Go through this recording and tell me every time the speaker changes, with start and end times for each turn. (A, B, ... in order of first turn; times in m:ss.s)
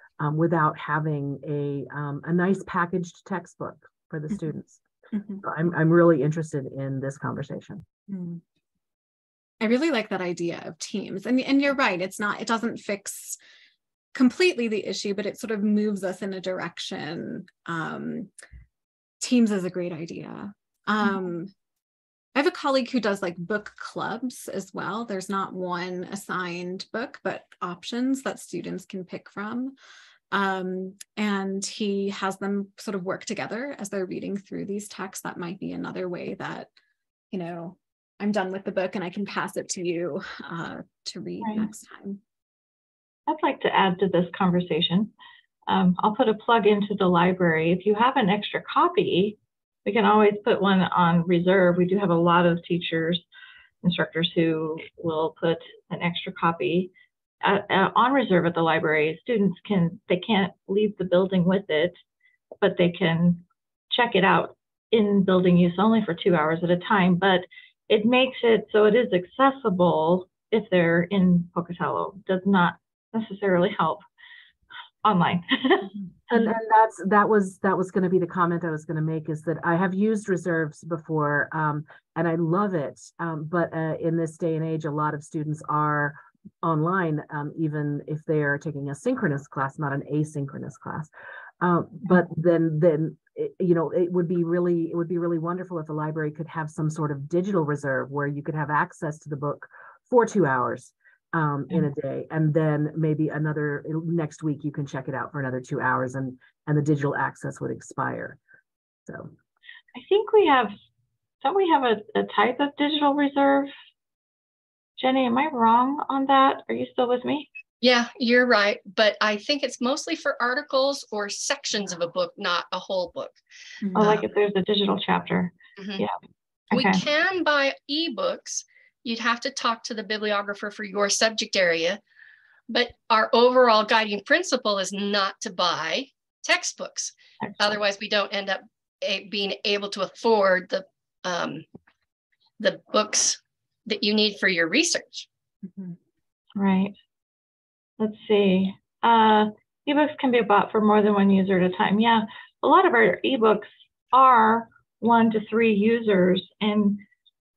0:00.2-0:04.8 A
0:05.4-0:07.8 A
0:08.1-0:08.4 B
0:09.6-0:13.4 B
0:14.1-0:18.3 B
0:19.2-0:21.5 B
0:22.3-0:29.7 B
0:30.3-0:36.7 B
0:37.3-0:42.2 B
0:43.3-0:45.1 C
0:45.7-0:53.2 C
0:53.8-0:56.9 C
0:57.4-1:02.0 C
1:02.6-1:14.0 C
1:15.0-1:15.9 C
1:16.3-1:31.1 A
1:31.6-1:48.4 A
1:49.1-1:49.3 A
1:49.9-1:50.7 C
1:51.4-1:53.7 C
1:55.0-1:57.5 C
1:57.8-2:03.4 D
2:03.8-2:04.2 B
2:04.0-2:06.2 C
2:05.8-2:06.0 D
2:06.7-2:07.0 C
2:06.7-2:12.0 D
2:12.7-2:21.6 D
2:22.6-2:25.3 D
2:26.6-2:26.9 C
2:28.0-2:37.0 C